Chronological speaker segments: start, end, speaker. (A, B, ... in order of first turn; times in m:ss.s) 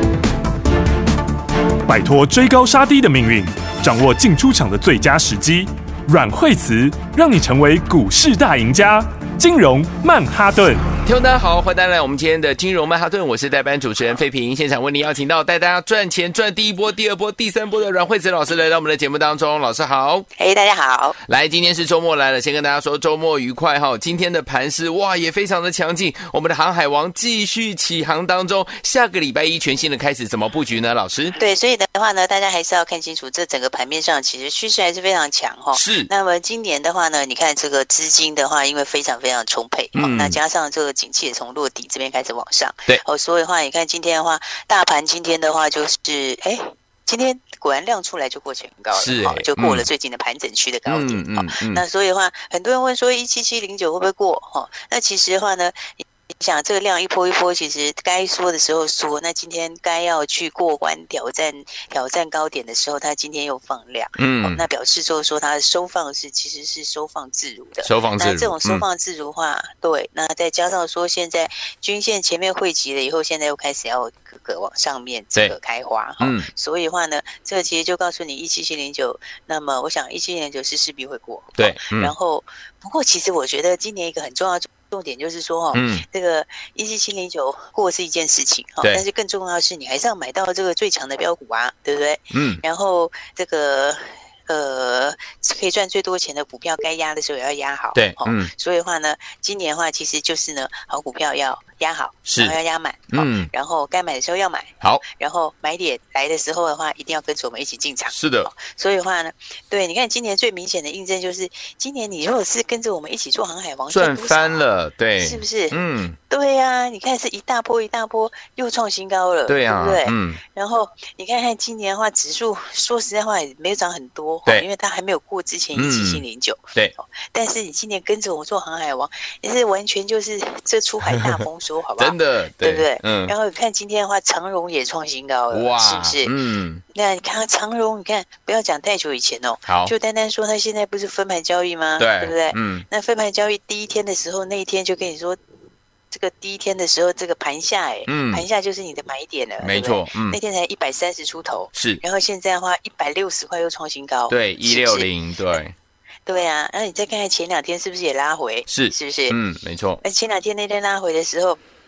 0:01.9-0:10.9 A
0:11.0-0:20.3 B
0:20.4-0:21.2 C
0:21.3-0:31.4 B
0:31.4-1:54.7 C
0:35.7-0:36.1 B
0:40.0-0:40.4 B
0:48.9-0:49.9 B
0:50.9-0:51.8 B
1:04.2-1:04.6 B
1:07.8-1:08.8 B
1:16.2-1:16.5 B
1:21.6-1:22.1 B
1:25.7-1:26.0 B
1:32.3-1:32.6 B
1:38.0-1:38.5 B
1:42.3-1:42.6 B
1:43.1-1:43.5 B
1:48.1-1:48.5 B
1:53.9-1:56.2 B
1:55.2-2:16.3 C
1:59.5-2:00.4 B
2:05.8-2:06.2 B
2:12.0-2:13.3 B
2:15.5-2:16.8 B
2:16.9-2:25.4 C
2:19.7-2:19.9 B
2:22.0-2:22.8 B
2:26.1-2:35.6 C
2:28.1-2:28.4 B
2:29.6-2:30.4 B
2:31.7-2:32.0 B
2:34.3-2:35.7 B
2:36.3-2:39.4 C
2:38.7-2:40.0 B
2:40.0-2:41.6 C